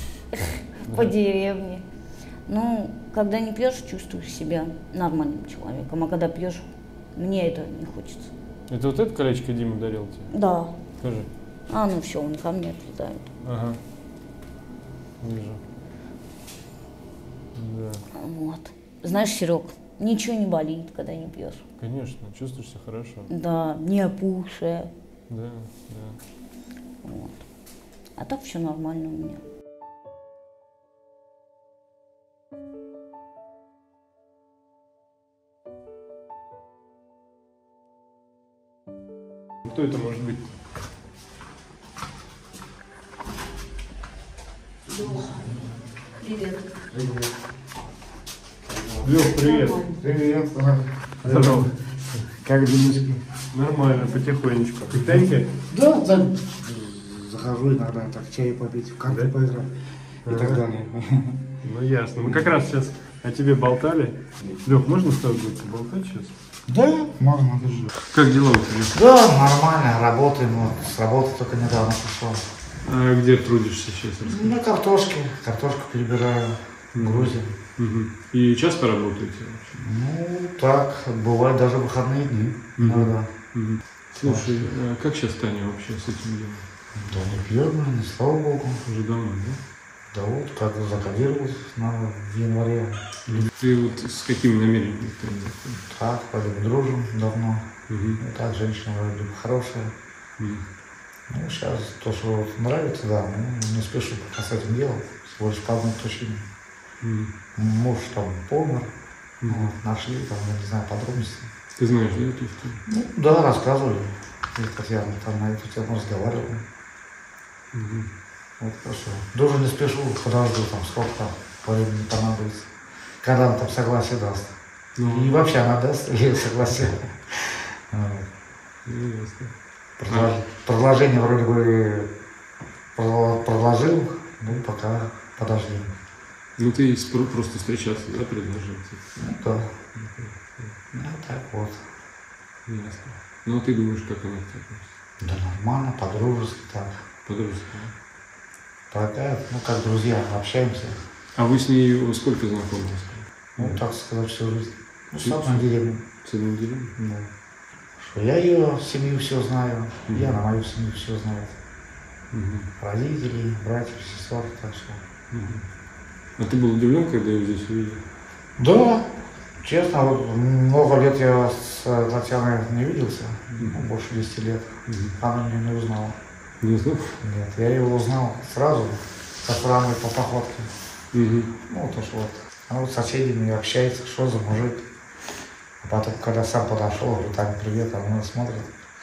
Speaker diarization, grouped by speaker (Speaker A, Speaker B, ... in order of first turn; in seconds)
Speaker A: 0.3-1.8, 2.5-8.3, 10.3-10.7, 11.7-13.3, 18.1-21.6, 23.3-24.9, 27.0-27.4, 28.2-29.4, 44.9-45.5, 46.2-46.8, 49.3-49.9
Speaker B: 0.4-1.1, 8.7-10.3, 11.0-11.3, 13.4-13.8, 15.2-15.6, 17.5-18.0, 21.8-23.3, 25.3-26.2, 39.6-40.5, 49.0-49.8, 51.2-52.2, 53.5-55.5, 59.1-59.3, 60.2-60.6, 61.6-66.3, 68.0-69.0, 72.8-74.5, 76.9-79.8, 82.8-86.7, 88.8-89.6, 93.3-95.8, 97.9-98.2, 100.4-100.7, 107.0-107.3, 109.4-109.7, 111.8-112.8, 117.7-118.1, 125.0-125.4, 128.8-129.5, 136.6-139.1, 139.9-140.7, 142.7-144.9, 147.2-147.9, 151.3-153.8, 155.2-155.7, 156.2-156.9, 160.1-160.4, 162.3-162.7, 165.3-165.7, 166.4-168.0, 174.9-175.2, 176.6-177.2, 181.1-181.5
Speaker C: 46.9-47.3, 48.7-51.7, 52.3-53.2, 55.7-59.7, 60.2-61.4, 62.2-62.5, 66.7-67.9, 68.9-72.4, 74.2-77.5, 79.8-83.3, 84.2-84.7, 86.9-88.8, 90.1-93.5, 95.8-99.9, 101.3-106.4, 107.5-108.9, 109.5-111.5, 112.8-116.6, 118.6-122.7, 123.2-128.3, 130.0-132.1, 132.9-135.9, 139.2-139.9, 140.9-141.9, 145.2-147.0, 148.9-151.0, 153.6-156.0, 157.0-157.3, 158.0-161.5, 162.8-165.0, 168.6-176.2, 177.2-180.7, 181.7-184.8, 185.8-188.7